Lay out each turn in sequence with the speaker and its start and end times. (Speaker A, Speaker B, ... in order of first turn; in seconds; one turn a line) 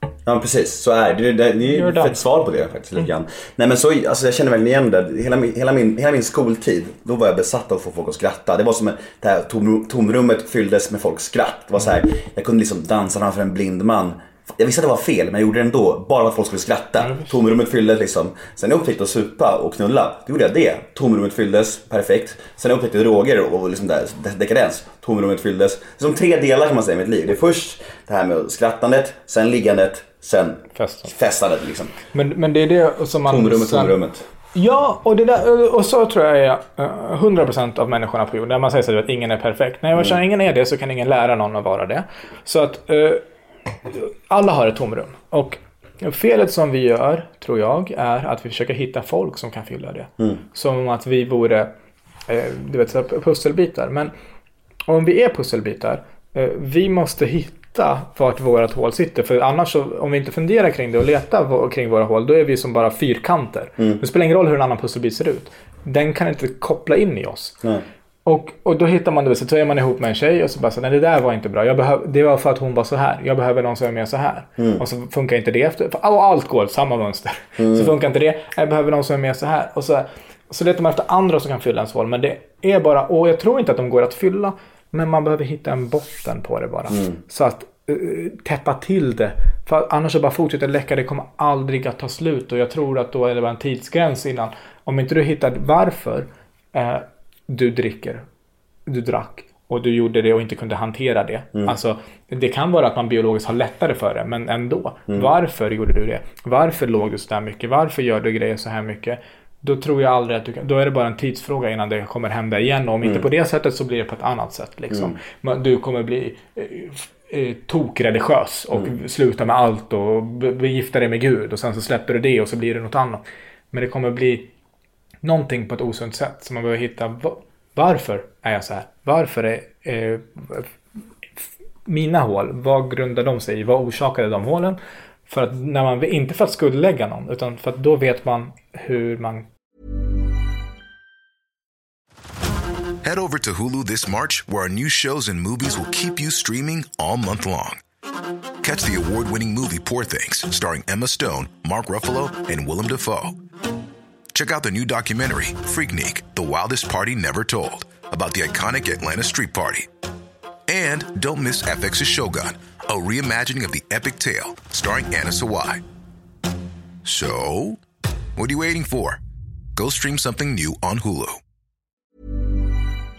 Speaker A: 0.3-31.9
Speaker B: 1.7-2.2
Speaker B: 17.0-17.4
Speaker B: 30.8-31.1
Speaker B: 32.1-34.0
Speaker A: 33.2-34.2
Speaker B: 34.5-43.2
Speaker B: 43.9-51.7
Speaker B: 52.3-54.1
Speaker B: 54.9-67.6
Speaker A: 63.8-64.0
Speaker B: 68.2-98.3
Speaker A: 74.6-74.8
Speaker A: 77.6-77.9
Speaker A: 86.9-87.2
Speaker B: 98.9-124.5
Speaker A: 114.9-115.2
Speaker B: 125.2-130.7
Speaker B: 131.9-139.5
Speaker C: 143.0-147.8
Speaker C: 148.6-153.4
Speaker C: 154.3-159.9
Speaker C: 160.7-165.8
Speaker C: 167.0-167.8
Speaker C: 168.4-169.2
Speaker C: 169.8-171.4